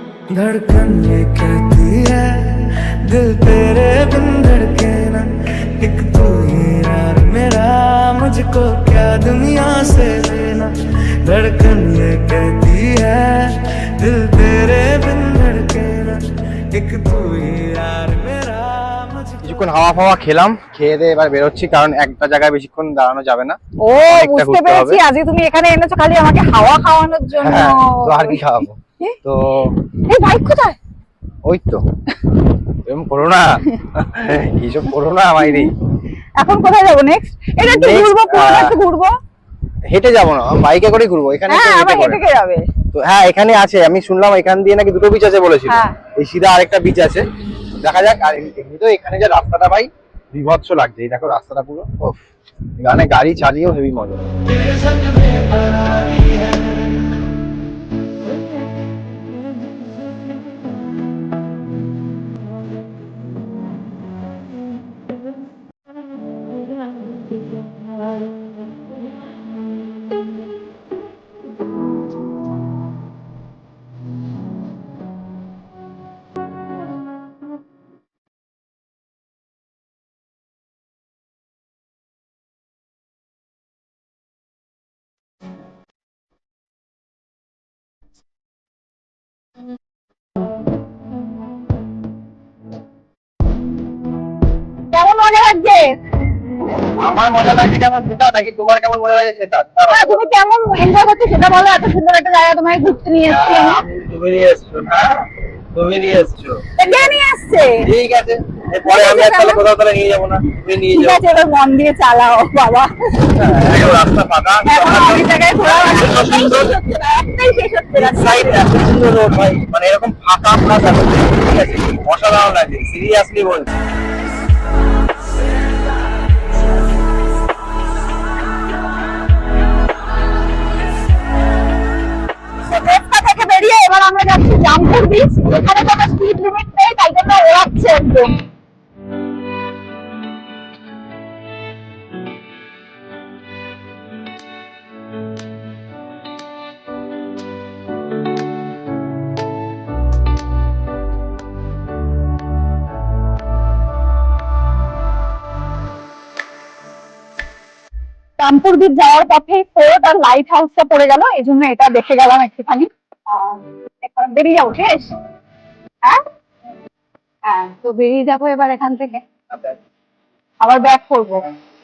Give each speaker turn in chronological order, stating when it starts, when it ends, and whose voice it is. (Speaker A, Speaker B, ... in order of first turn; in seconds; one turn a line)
Speaker A: 0.3-19.6
Speaker B: 19.4-25.0
Speaker C: 23.8-28.5
Speaker B: 27.4-29.8
Speaker C: 30.1-30.8
Speaker B: 31.4-31.9
Speaker B: 32.9-35.7
Speaker C: 35.4-35.7
Speaker C: 36.4-39.1
Speaker B: 37.6-38.8
Speaker B: 39.9-42.2
Speaker C: 41.5-42.6
Speaker B: 42.9-47.3
Speaker C: 45.7-46.0
Speaker B: 47.8-52.2
Speaker B: 52.8-54.3
Speaker A: 54.7-56.4
Speaker C: 94.9-96.0
Speaker B: 96.8-100.2
Speaker C: 99.9-103.8
Speaker B: 103.3-106.6
Speaker C: 106.8-107.8
Speaker B: 107.8-111.2
Speaker C: 108.8-109.6
Speaker C: 110.8-113.4
Speaker B: 113.3-116.8
Speaker C: 114.7-118.7
Speaker B: 117.9-123.7
Speaker C: 132.7-138.4
Speaker C: 158.4-165.1
Speaker C: 167.4-169.8
Speaker C: 170.6-171.6